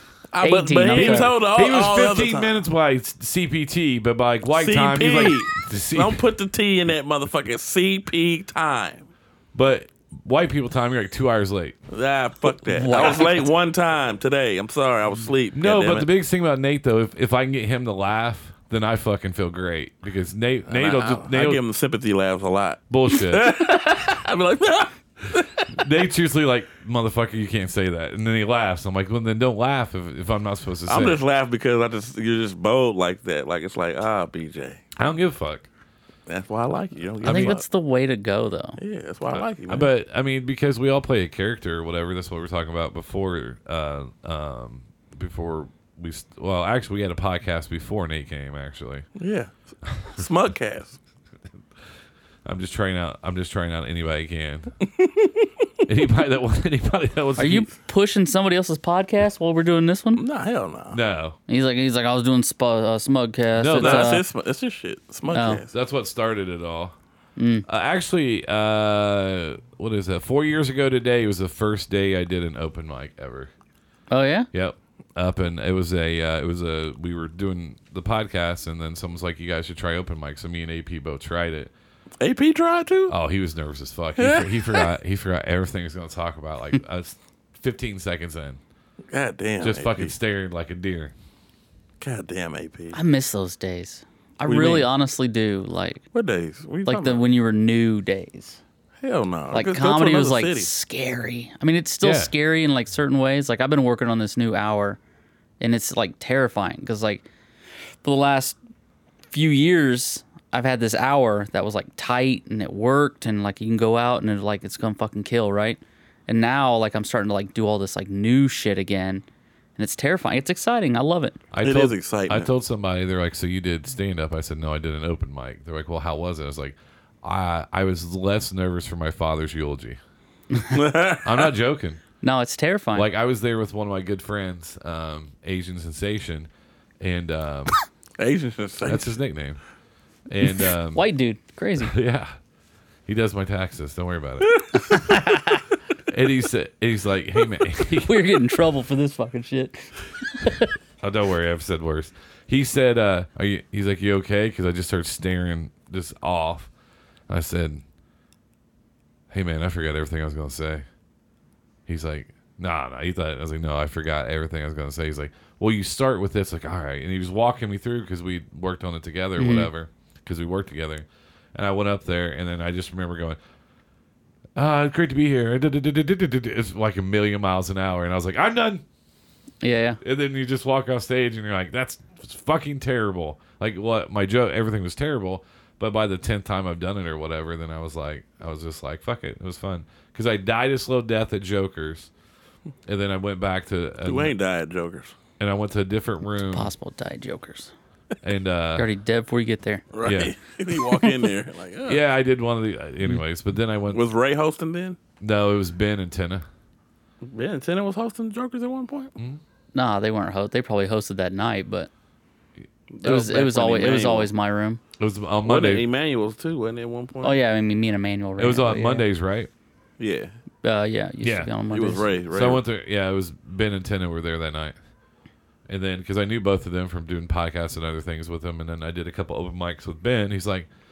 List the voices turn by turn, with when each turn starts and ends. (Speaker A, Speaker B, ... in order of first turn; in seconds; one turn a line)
Speaker A: 0.3-2.6
Speaker B: 0.4-1.3
Speaker C: 0.9-6.2
Speaker A: 4.5-9.1
Speaker C: 9.5-11.8
Speaker A: 11.9-16.1
Speaker B: 12.7-13.5
Speaker C: 15.5-21.6
Speaker A: 20.7-25.8
Speaker C: 22.9-23.5
Speaker C: 25.7-31.2
Speaker A: 30.9-35.0
Speaker C: 35.0-35.7
Speaker A: 36.3-37.6
Speaker C: 37.2-37.6
Speaker B: 37.2-38.8
Speaker A: 38.8-39.9
Speaker C: 39.3-49.1
Speaker A: 49.2-51.0
Speaker C: 52.5-54.7
Speaker A: 55.0-55.5
Speaker C: 55.9-57.7
Speaker B: 57.4-60.2
Speaker A: 60.2-61.0
Speaker C: 60.9-61.4
Speaker B: 61.5-64.2
Speaker C: 63.5-64.2
Speaker A: 63.8-65.7
Speaker B: 65.3-65.6
Speaker C: 65.7-66.9
Speaker B: 67.4-67.7
Speaker C: 67.7-73.5
Speaker B: 74.1-74.5
Speaker C: 74.5-81.7
Speaker A: 82.2-83.2
Speaker C: 83.1-88.6
Speaker A: 84.2-84.9
Speaker A: 89.1-90.1
Speaker C: 89.6-91.1
Speaker A: 92.0-93.0
Speaker B: 92.9-96.0
Speaker A: 94.5-94.9
Speaker A: 96.1-97.2
Speaker B: 96.9-98.6
Speaker A: 99.0-100.7
Speaker B: 99.5-105.0
Speaker C: 102.0-102.3
Speaker B: 105.6-107.3
Speaker B: 108.0-108.6
Speaker B: 109.3-119.2
Speaker B: 119.8-121.4
Speaker C: 121.5-130.0
Speaker A: 121.6-122.5
Speaker A: 130.7-131.5
Speaker C: 131.2-132.0
Speaker B: 132.2-133.1
Speaker C: 132.9-136.5
Speaker C: 137.0-137.8
Speaker A: 138.2-139.2
Speaker C: 138.9-139.6
Speaker C: 140.3-141.0
Speaker B: 140.9-141.9
Speaker C: 141.8-142.4
Speaker C: 143.1-144.6
Speaker A: 144.5-144.8
Speaker B: 144.9-145.6
Speaker C: 146.1-148.4
Speaker B: 148.0-150.7
Speaker C: 151.0-156.7
Speaker C: 157.3-157.8
Speaker C: 159.3-160.8
Speaker C: 161.9-173.4
Speaker B: 169.4-169.7
Speaker C: 174.6-178.8
Speaker B: 179.6-180.0
Speaker C: 180.0-192.1
Speaker C: 192.9-194.3
Speaker A: 194.1-195.2
Speaker C: 195.4-196.7
Speaker B: 196.4-197.7
Speaker C: 198.2-198.9
Speaker B: 198.8-199.8
Speaker A: 199.9-202.0
Speaker C: 200.0-200.3
Speaker C: 201.9-204.0
Speaker A: 203.9-205.0
Speaker C: 205.2-206.4
Speaker A: 207.2-209.1
Speaker B: 209.8-211.9
Speaker A: 212.9-214.3
Speaker B: 213.0-214.8
Speaker C: 215.0-215.8
Speaker A: 215.4-217.4
Speaker B: 217.2-219.1
Speaker C: 218.4-219.5
Speaker A: 220.0-220.3
Speaker B: 220.6-222.1
Speaker C: 221.2-221.5
Speaker A: 221.7-222.6
Speaker C: 222.3-224.8
Speaker C: 225.7-230.7